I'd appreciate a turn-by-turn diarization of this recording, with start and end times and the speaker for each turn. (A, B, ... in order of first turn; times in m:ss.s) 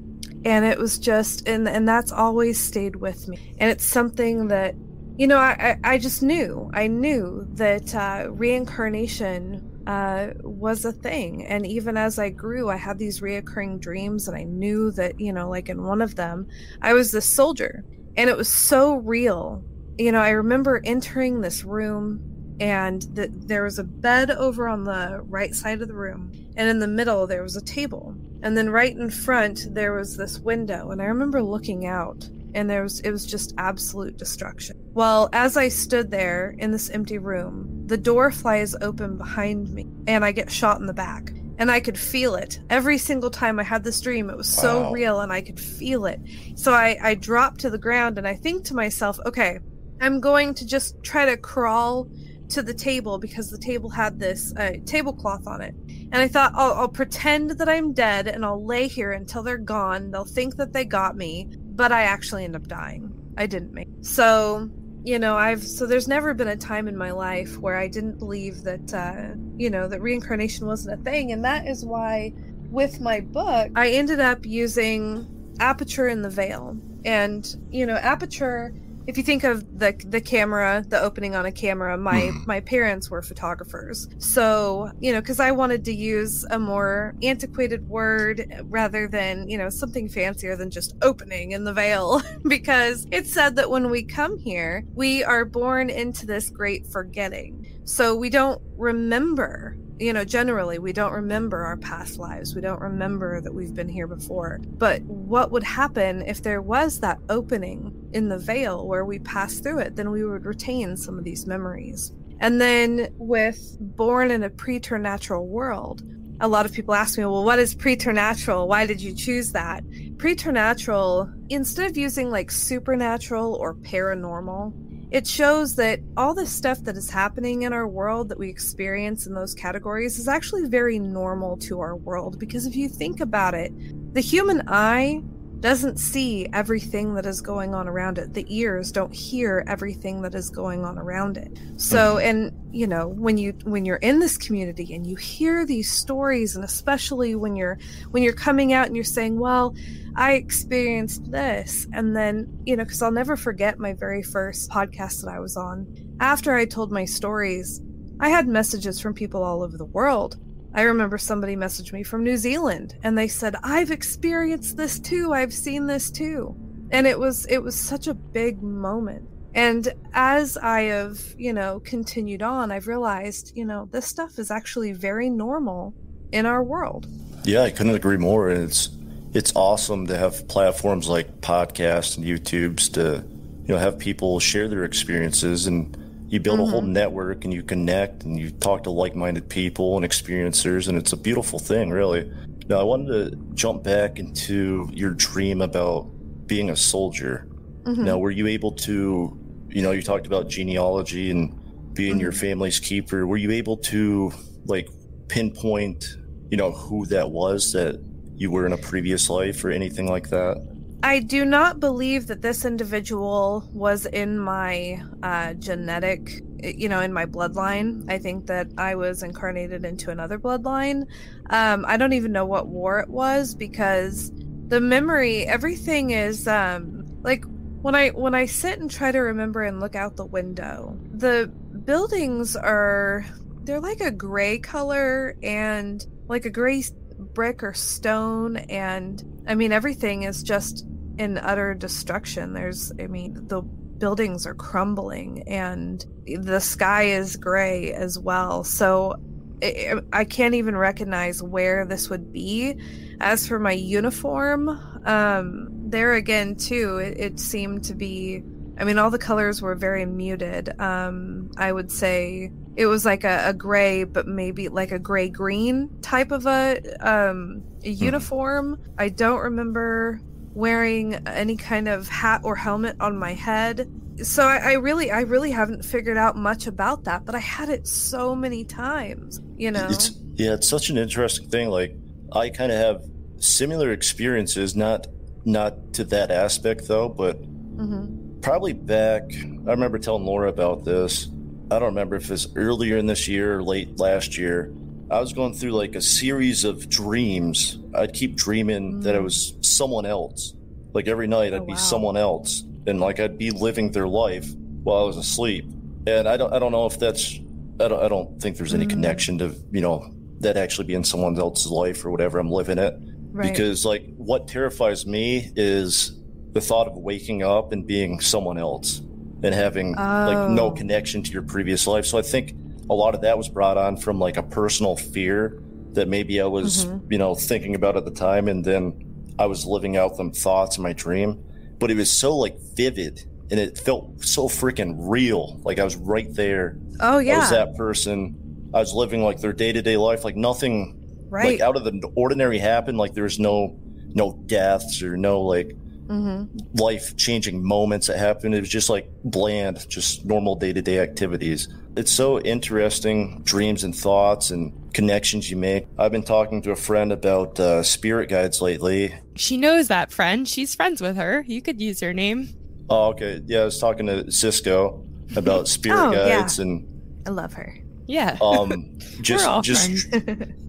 0:00.4-2:57.1 A
0:44.5-0:45.0 B
1:22.1-1:22.4 B
2:21.9-2:22.2 B
2:57.4-3:17.5 B
3:06.5-3:06.9 A
3:17.9-3:18.2 A
3:18.0-3:30.6 B
3:22.1-3:22.4 A
3:31.0-4:40.1 A
4:39.7-4:47.4 B
4:47.8-4:48.1 A
4:48.4-5:45.8 B
4:58.9-4:59.4 A
5:01.5-5:02.0 A
5:08.7-5:09.3 A
5:13.3-5:13.6 A
5:20.0-5:20.8 A
5:26.6-5:27.0 A
5:37.0-5:37.7 A
5:41.3-5:41.6 A
5:46.1-5:46.5 A
5:46.6-5:59.2 B
5:59.4-6:02.5 C
6:02.9-6:06.9 B
6:05.9-6:06.6 A
6:07.3-6:07.8 A
6:08.1-6:08.7 C
6:08.4-6:10.0 B
6:09.3-6:10.1 C
6:10.1-6:10.5 A